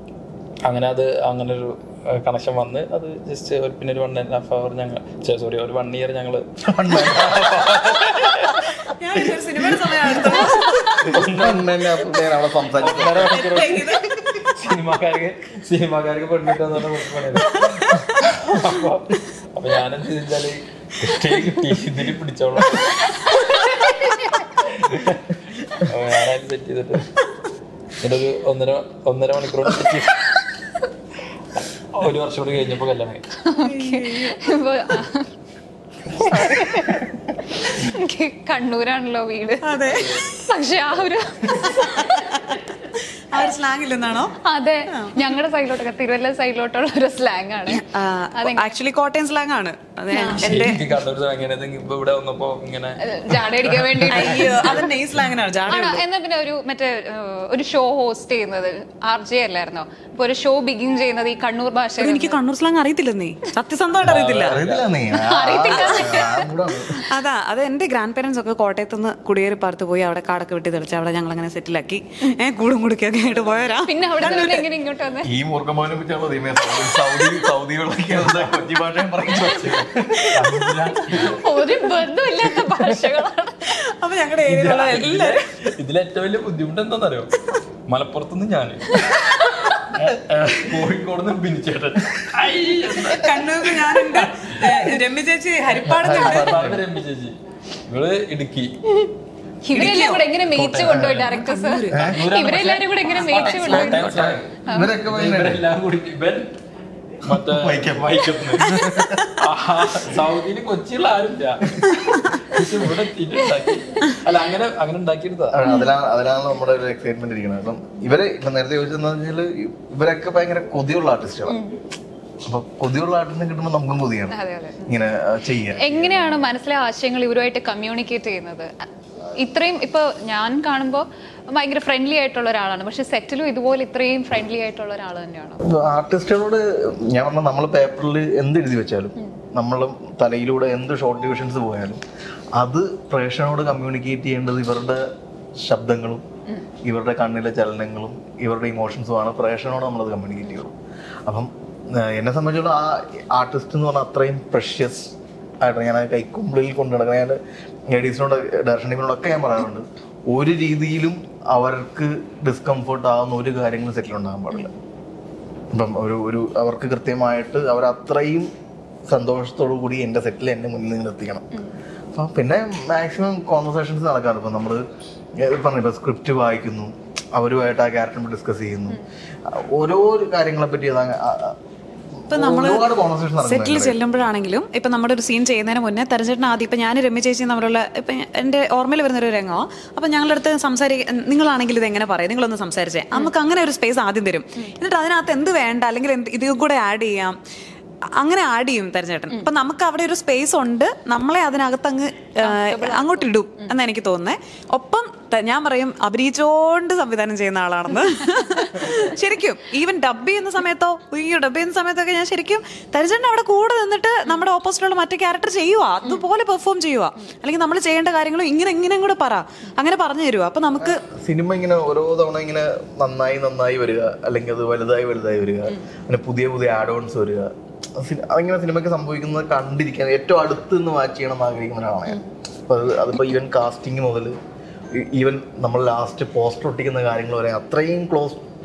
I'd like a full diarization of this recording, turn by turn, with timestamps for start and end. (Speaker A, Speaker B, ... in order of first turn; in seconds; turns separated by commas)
Speaker A: 0.6-12.0, Speaker B: 6.6-8.1, Speaker C: 8.9-10.9, Speaker B: 9.9-10.3, Speaker B: 11.0-13.9, Speaker A: 12.7-23.2, Speaker C: 13.3-14.1, Speaker C: 17.5-18.2, Speaker D: 23.3-24.3, Speaker A: 24.5-27.1, Speaker A: 28.0-30.4, Speaker A: 31.9-33.2, Speaker D: 33.4-35.3, Speaker C: 33.6-34.4, Speaker D: 36.1-42.6, Speaker C: 39.6-40.4, Speaker C: 41.6-44.4, Speaker D: 44.4-48.8, Speaker C: 44.9-45.2, Speaker C: 47.7-50.8, Speaker D: 50.1-50.4, Speaker A: 50.4-54.9, Speaker D: 53.0-54.9, Speaker C: 54.1-56.0, Speaker D: 55.7-62.4, Speaker C: 62.0-64.6, Speaker A: 64.0-64.9, Speaker B: 64.4-66.9, Speaker D: 65.1-67.0, Speaker C: 65.7-66.2, Speaker C: 67.1-74.6, Speaker D: 73.8-75.3, Speaker B: 75.2-81.4, Speaker A: 78.2-78.5, Speaker A: 79.5-81.4, Speaker D: 81.2-83.8, Speaker C: 83.7-85.4, Speaker A: 84.4-87.3, Speaker A: 87.9-89.2, Speaker A: 89.9-95.0, Speaker C: 92.9-96.8, Speaker A: 95.9-97.4, Speaker B: 96.0-96.8, Speaker A: 97.9-98.8, Speaker D: 99.6-104.1, Speaker C: 99.7-100.2, Speaker A: 99.8-101.3, Speaker B: 100.9-101.2, Speaker C: 101.3-102.1, Speaker B: 101.9-102.2, Speaker A: 101.9-106.5, Speaker C: 103.1-104.4, Speaker B: 104.1-105.6, Speaker A: 107.2-111.8, Speaker B: 107.3-109.3, Speaker A: 112.4-115.6, Speaker B: 115.5-121.6, Speaker D: 121.5-121.8, Speaker B: 122.4-126.5, Speaker D: 124.3-125.0, Speaker D: 125.8-128.8, Speaker D: 129.3-135.6, Speaker B: 135.6-142.0, Speaker B: 142.6-145.1, Speaker B: 145.6-146.2, Speaker B: 146.8-150.7, Speaker B: 151.2-164.7, Speaker B: 165.7-168.5, Speaker B: 169.1-171.5, Speaker B: 172.1-174.8, Speaker B: 175.4-181.6, Speaker B: 182.2-184.0, Speaker C: 182.3-197.3, Speaker C: 198.2-221.0, Speaker D: 202.4-203.7, Speaker D: 208.0-209.1, Speaker B: 220.8-234.4, Speaker B: 234.9-238.4